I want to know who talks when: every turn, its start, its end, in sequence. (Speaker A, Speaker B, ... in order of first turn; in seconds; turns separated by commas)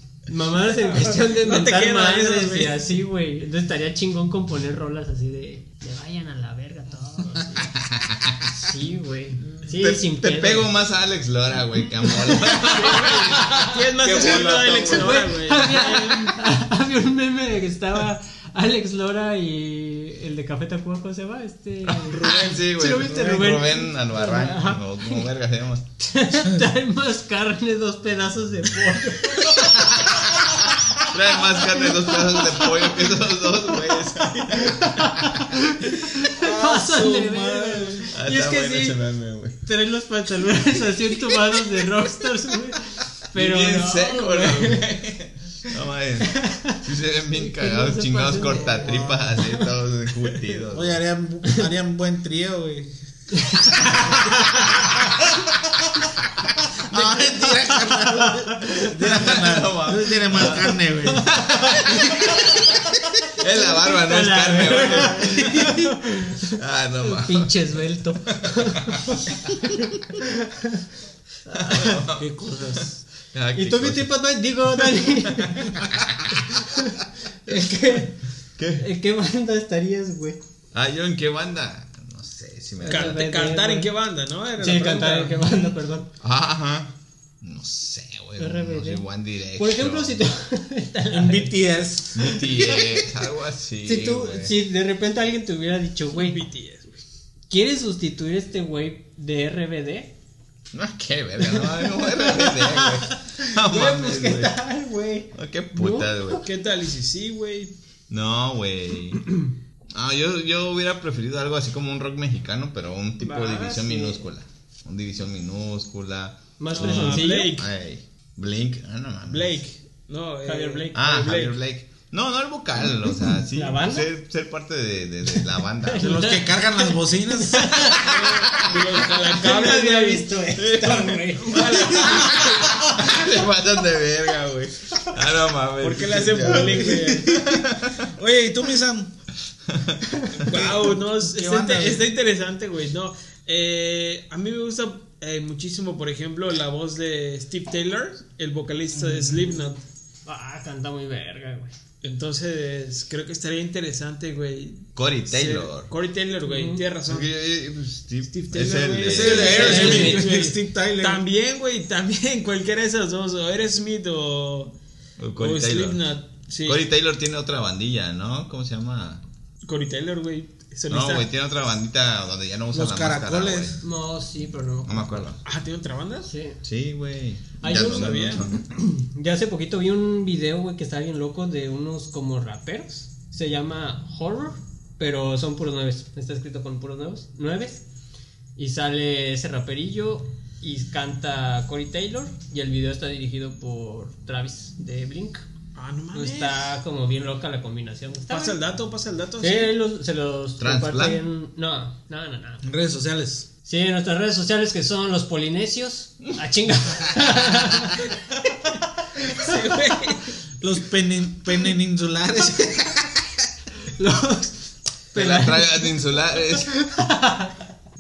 Speaker A: 0.3-7.7, Speaker B: 0.9-2.8, Speaker C: 7.6-8.4, Speaker A: 8.5-10.7, Speaker C: 9.8-13.5, Speaker A: 12.0-25.3, Speaker B: 12.5-16.4, Speaker C: 14.0-15.2, Speaker C: 22.0-25.9, Speaker B: 22.2-22.6, Speaker A: 26.0-30.1, Speaker C: 29.4-35.4, Speaker A: 31.1-33.1, Speaker A: 33.8-39.0, Speaker D: 36.4-38.1, Speaker C: 38.1-39.6, Speaker A: 39.6-44.9, Speaker C: 43.3-51.0, Speaker A: 46.3-46.8, Speaker A: 47.3-49.6, Speaker D: 48.5-49.3, Speaker D: 50.7-53.0, Speaker A: 53.3-55.1, Speaker D: 53.6-54.6, Speaker D: 56.8-62.5, Speaker C: 56.9-57.5, Speaker A: 56.9-58.9, Speaker C: 58.8-62.6, Speaker A: 61.1-70.9, Speaker C: 63.2-67.5, Speaker C: 68.5-69.3, Speaker A: 71.5-72.0, Speaker C: 71.5-72.3, Speaker D: 72.1-73.0, Speaker C: 73.3-74.1, Speaker A: 73.5-75.8, Speaker C: 74.9-76.6, Speaker A: 76.3-78.2, Speaker C: 78.6-78.9, Speaker A: 78.8-80.4, Speaker C: 80.7-83.2, Speaker A: 82.8-83.9, Speaker B: 82.9-85.6, Speaker A: 84.6-86.1, Speaker C: 86.2-90.2, Speaker A: 88.4-91.5, Speaker D: 91.1-92.7, Speaker C: 92.1-94.5, Speaker A: 92.4-93.0, Speaker A: 93.8-96.4, Speaker B: 96.1-97.0, Speaker A: 97.5-100.1, Speaker C: 100.7-104.5, Speaker A: 101.4-106.4, Speaker C: 105.3-106.4, Speaker B: 106.4-107.7, Speaker C: 108.1-119.6, Speaker A: 113.2-114.3, Speaker A: 116.6-117.6, Speaker B: 116.7-117.7, Speaker B: 119.3-121.6, Speaker A: 120.5-121.1, Speaker C: 120.9-126.3, Speaker A: 123.5-124.1, Speaker A: 125.8-128.1, Speaker D: 126.0-128.0, Speaker C: 127.9-129.0, Speaker B: 128.0-130.3, Speaker A: 129.3-133.3, Speaker D: 129.7-130.1, Speaker C: 130.6-138.1, Speaker B: 131.4-132.7, Speaker B: 135.8-137.3, Speaker D: 136.4-139.1, Speaker C: 139.7-140.5, Speaker D: 140.4-142.1, Speaker B: 140.4-149.8, Speaker D: 148.9-149.6, Speaker A: 150.3-151.7, Speaker B: 152.0-157.3, Speaker C: 154.9-155.9, Speaker A: 156.4-156.9, Speaker C: 157.1-160.1, Speaker B: 158.3-164.7, Speaker D: 159.0-161.2, Speaker A: 159.3-160.6, Speaker C: 165.2-166.1, Speaker B: 165.4-166.8, Speaker C: 166.6-169.2, Speaker B: 169.6-171.3, Speaker C: 170.9-173.8, Speaker D: 172.7-173.8, Speaker A: 173.8-175.3, Speaker C: 174.9-175.4, Speaker B: 175.4-176.3, Speaker A: 176.2-176.6, Speaker C: 176.6-178.7, Speaker A: 177.6-187.8, Speaker B: 177.6-178.4, Speaker A: 188.6-195.4, Speaker B: 195.7-196.7, Speaker A: 196.1-198.6, Speaker B: 198.3-199.7, Speaker A: 199.4-202.6, Speaker C: 200.6-201.2, Speaker D: 202.6-203.5, Speaker A: 203.6-208.1, Speaker B: 209.2-210.3, Speaker A: 209.4-209.9, Speaker D: 210.6-213.3, Speaker A: 213.9-214.6, Speaker A: 215.1-217.6, Speaker C: 215.1-216.7